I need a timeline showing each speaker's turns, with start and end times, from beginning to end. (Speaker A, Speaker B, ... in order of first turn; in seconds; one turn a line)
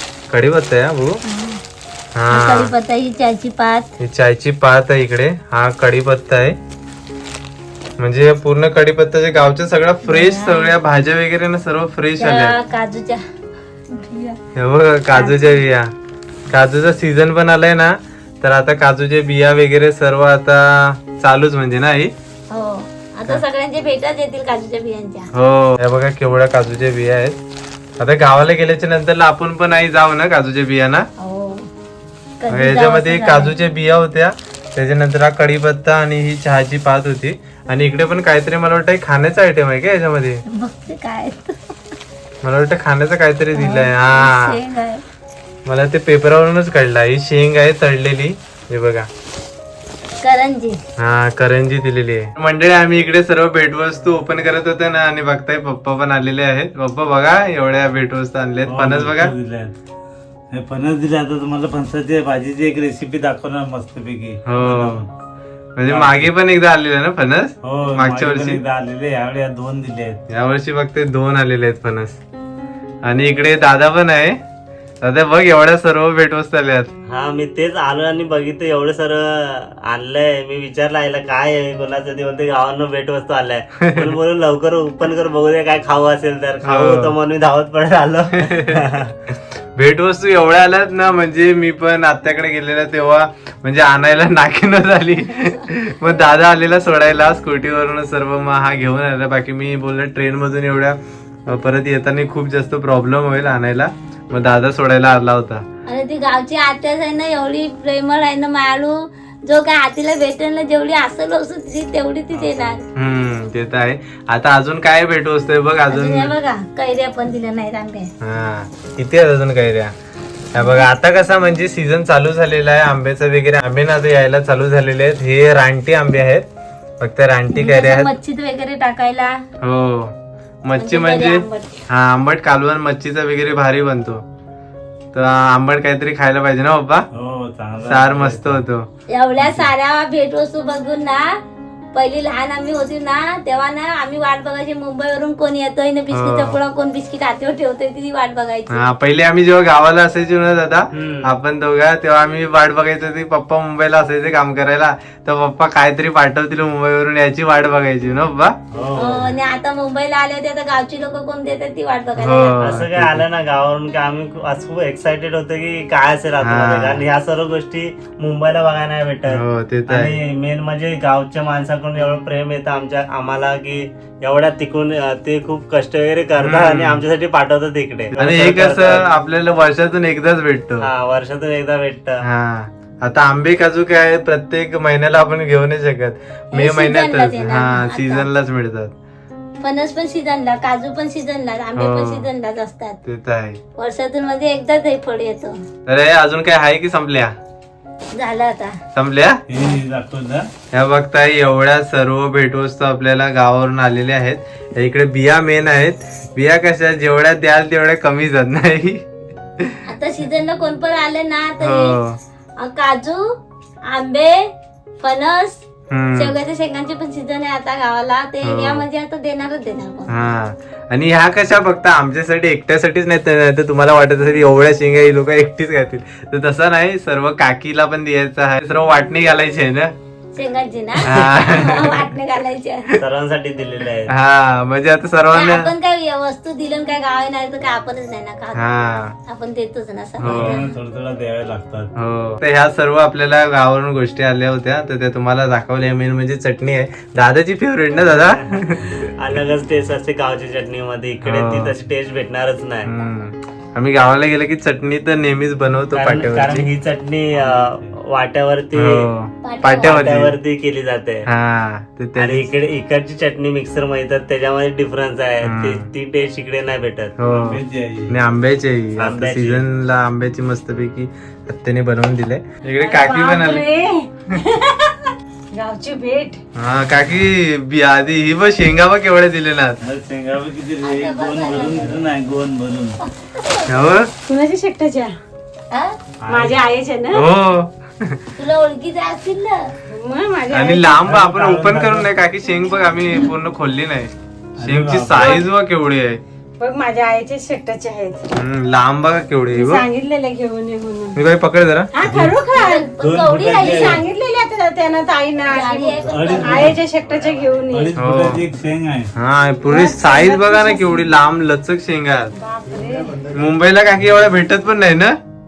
Speaker A: 0.3-1.2
Speaker B: 1.3-1.6
Speaker A: 2.1-2.7
Speaker B: 2.3-3.9
Speaker A: 4.0-6.6
Speaker A: 8.0-12.6
Speaker B: 10.1-10.8
Speaker B: 12.2-13.2
Speaker B: 13.9-14.4
Speaker A: 14.6-15.9
Speaker B: 15.1-15.6
Speaker A: 16.5-22.1
Speaker B: 22.5-25.3
Speaker A: 25.3-27.4
Speaker A: 28.0-31.1
Speaker B: 31.2-31.7
Speaker B: 32.4-33.5
Speaker A: 32.5-40.4
Speaker B: 40.5-41.6
Speaker A: 42.4-44.6
Speaker B: 43.5-45.0
Speaker A: 45.7-49.1
Speaker B: 50.2-50.8
Speaker A: 51.0-59.3
Speaker C: 58.6-59.7
Speaker C: 60.5-65.1
Speaker A: 64.5-65.0
Speaker A: 65.8-68.6
Speaker C: 65.8-66.3
Speaker C: 67.6-70.2
Speaker A: 70.3-72.2
Speaker A: 73.0-74.4
Speaker A: 75.0-76.9
Speaker D: 77.1-89.1
Speaker A: 83.8-84.1
Speaker A: 86.6-87.2
Speaker A: 88.4-88.8
Speaker A: 89.8-105.7
Speaker B: 105.9-112.8
Speaker C: 112.3-112.8
Speaker A: 112.9-116.3
Speaker B: 115.9-118.1
Speaker A: 118.2-119.9
Speaker A: 120.5-126.5
Speaker B: 120.6-120.9
Speaker A: 127.0-128.1
Speaker B: 127.5-129.4
Speaker A: 129.6-134.2
Speaker B: 130.8-131.8
Speaker A: 135.1-137.1
Speaker C: 137.1-138.6
Speaker A: 137.8-138.9
Speaker B: 139.1-141.3
Speaker B: 141.9-148.8
Speaker A: 146.1-146.6
Speaker A: 148.7-158.6
Speaker C: 158.7-159.2
Speaker B: 159.0-162.7
Speaker A: 162.2-163.2
Speaker D: 162.6-179.0
Speaker A: 166.4-167.1
Speaker A: 169.3-170.2
Speaker A: 176.4-177.1
Speaker A: 178.2-180.9
Speaker D: 180.8-182.1
Speaker A: 182.2-188.9
Speaker B: 186.5-188.3
Speaker B: 189.6-193.0
Speaker A: 191.8-192.3
Speaker A: 193.1-193.6
Speaker B: 193.8-195.6
Speaker A: 195.9-197.3
Speaker B: 198.1-198.8
Speaker A: 198.9-199.4
Speaker C: 199.5-200.5
Speaker A: 200.7-209.0
Speaker B: 209.9-212.0
Speaker A: 211.6-212.2
Speaker B: 212.6-213.2
Speaker B: 213.9-220.1
Speaker A: 215.9-216.3
Speaker A: 218.4-218.8
Speaker A: 220.1-229.9
Speaker B: 230.3-232.9
Speaker A: 231.0-232.1
Speaker D: 233.0-234.1
Speaker A: 234.1-235.7
Speaker B: 235.3-238.6
Speaker A: 238.6-239.2
Speaker B: 239.3-240.7
Speaker A: 240.2-240.6
Speaker C: 240.2-241.9
Speaker A: 241.9-249.1
Speaker D: 248.1-248.4
Speaker D: 249.2-252.9
Speaker A: 251.2-251.8
Speaker A: 252.8-256.7
Speaker D: 255.9-259.1
Speaker C: 257.3-258.0
Speaker A: 258.8-260.4
Speaker B: 259.4-260.0
Speaker D: 259.8-261.3
Speaker A: 261.3-262.5
Speaker D: 262.2-267.1
Speaker A: 265.4-265.9
Speaker A: 267.2-273.7
Speaker C: 267.2-268.2
Speaker D: 269.0-269.6
Speaker E: 272.7-276.4
Speaker A: 276.6-279.8
Speaker C: 279.8-283.0
Speaker B: 280.8-282.1
Speaker B: 283.2-283.9
Speaker A: 283.7-284.1
Speaker E: 284.3-285.2
Speaker B: 285.7-286.0
Speaker C: 286.2-286.6
Speaker E: 286.3-287.3
Speaker A: 287.1-288.2
Speaker B: 288.4-289.6
Speaker E: 289.9-291.1
Speaker A: 290.5-296.2
Speaker C: 291.0-292.1
Speaker C: 294.6-295.4
Speaker E: 295.2-295.5
Speaker E: 296.6-298.2
Speaker A: 298.3-299.9
Speaker E: 299.5-301.2
Speaker A: 301.1-301.9
Speaker E: 301.9-302.9
Speaker C: 302.0-302.4
Speaker B: 302.5-304.0
Speaker C: 303.0-304.0
Speaker E: 303.6-308.0
Speaker B: 305.5-306.7
Speaker C: 306.0-309.1
Speaker A: 308.0-308.4
Speaker A: 309.1-312.3
Speaker E: 309.7-311.0
Speaker E: 312.4-313.2
Speaker A: 313.3-315.2